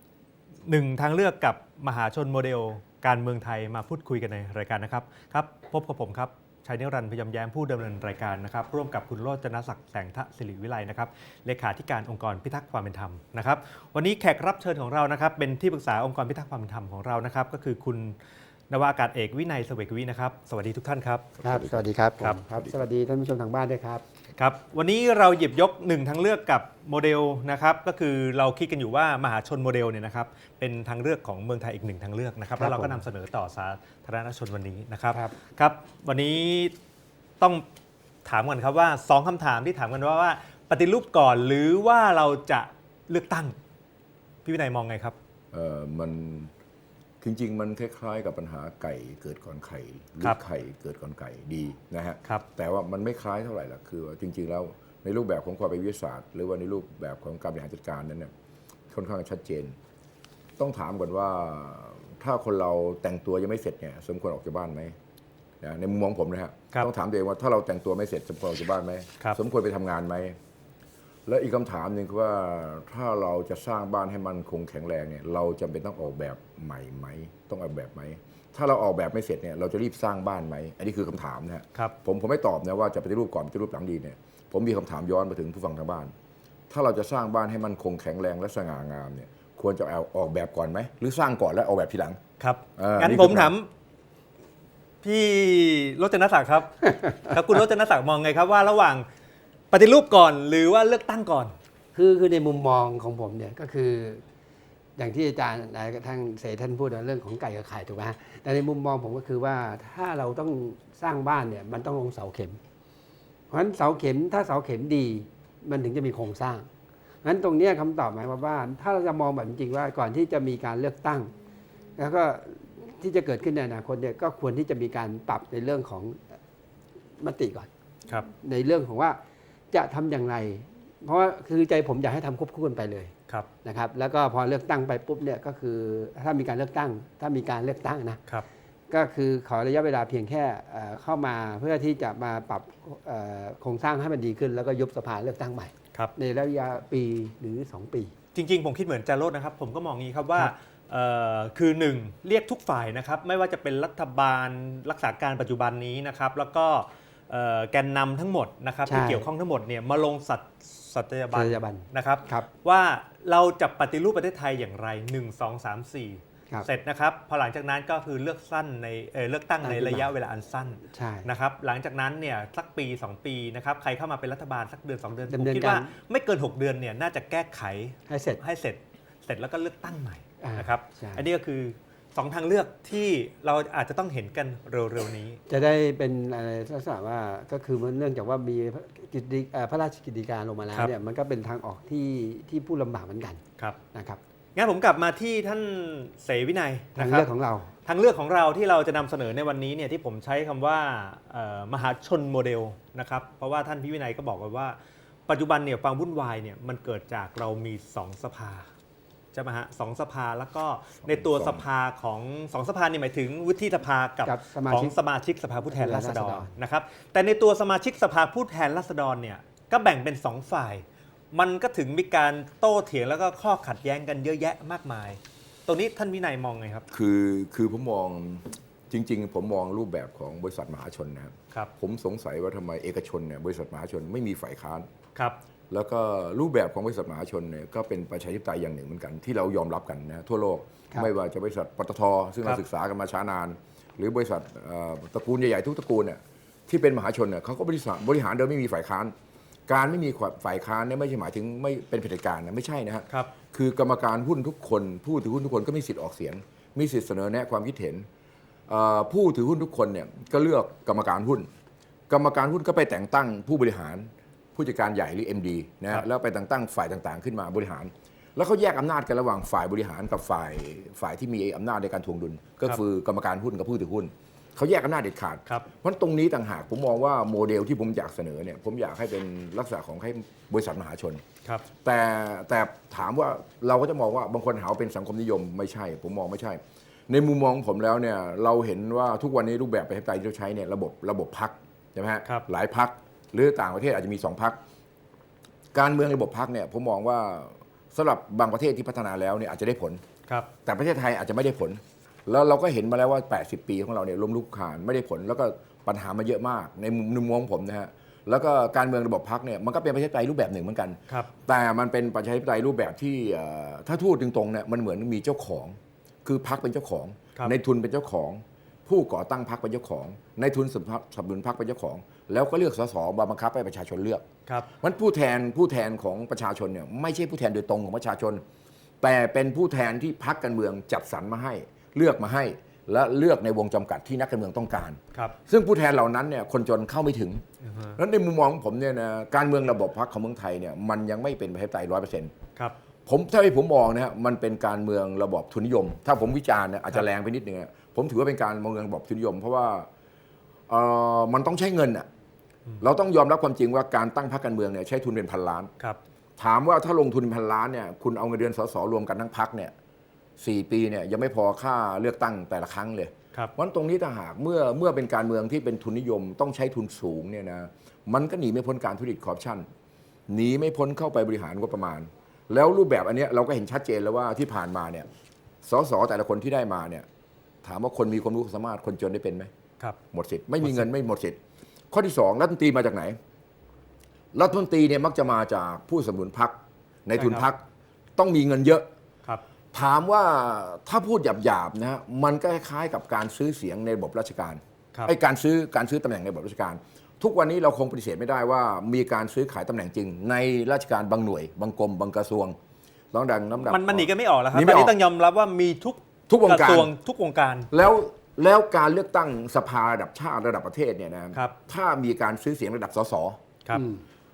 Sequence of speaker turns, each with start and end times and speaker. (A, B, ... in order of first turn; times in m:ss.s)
0:00.7-0:18.2 A
0:18.7-0:21.3 A
0:21.4-0:22.8 B
0:21.4-0:24.0 C
0:24.4-0:36.7 A
0:32.6-0:33.0 C
0:37.4-0:37.6 A
0:38.2-0:43.6 A
0:44.4-0:45.2 A
0:45.5-0:46.5 B
0:47.2-0:58.3 B
0:58.9-0:59.7 B
1:00.6-1:04.9 B
1:05.6-1:10.4 B
1:11.3-1:26.1 B
1:26.7-1:32.2 B
1:32.4-1:33.7 A
1:32.8-1:33.5 B
1:35.0-1:39.0 A
1:39.7-1:41.5 A
1:41.9-1:44.2 C
1:45.0-1:52.6 C
1:53.5-1:56.7 C
1:57.2-2:01.3 C
2:02.0-2:06.2 C
2:07.2-2:07.7 C
2:08.2-2:09.2 C
2:09.7-2:13.1 C
2:13.6-2:18.2 C
2:18.9-2:28.1 C
2:28.3-3:05.4 A
2:38.9-2:39.3 C
2:41.3-2:42.5 C
2:49.6-2:50.1 C
2:50.9-2:51.3 C
2:55.3-2:55.9 C
2:58.1-2:58.4 C
3:00.4-3:01.2 C
3:05.5-3:13.4 C
3:13.9-3:14.2 C
3:14.6-3:17.3 A
3:17.0-3:17.7 C
3:17.8-3:28.7 A
3:29.3-3:46.8 A
3:31.0-3:31.6 B
3:34.2-3:35.0 C
3:35.6-3:36.5 C
3:46.9-3:54.9 B
3:55.7-4:09.1 B
4:09.7-4:18.0 B
4:18.7-4:21.5 B
4:22.1-4:41.2 B
4:41.8-4:54.6 B
4:55.7-5:00.0 B
5:00.6-5:24.2 B
5:24.8-5:28.4 B
5:29.0-5:37.4 B
5:37.6-5:38.0 A
5:38.0-5:42.3 B
5:43.1-5:49.9 B
5:50.7-5:52.1 B
5:52.8-5:55.7 B
5:56.4-5:59.7 B
6:00.4-6:09.7 B
6:10.3-6:15.1 B
6:15.6-6:17.0 B
6:17.6-6:19.5 B
6:20.1-6:21.4 B
6:20.6-6:20.9 A
6:21.9-6:23.2 B
6:24.3-6:26.5 B
6:27.0-6:27.6 B
6:27.2-6:27.4 A
6:28.2-6:28.8 B
6:29.7-6:42.6 B
6:43.1-6:44.9 B
6:43.6-6:47.7 A
6:46.3-6:46.9 B
6:47.7-6:53.4 B
6:53.7-6:54.0 C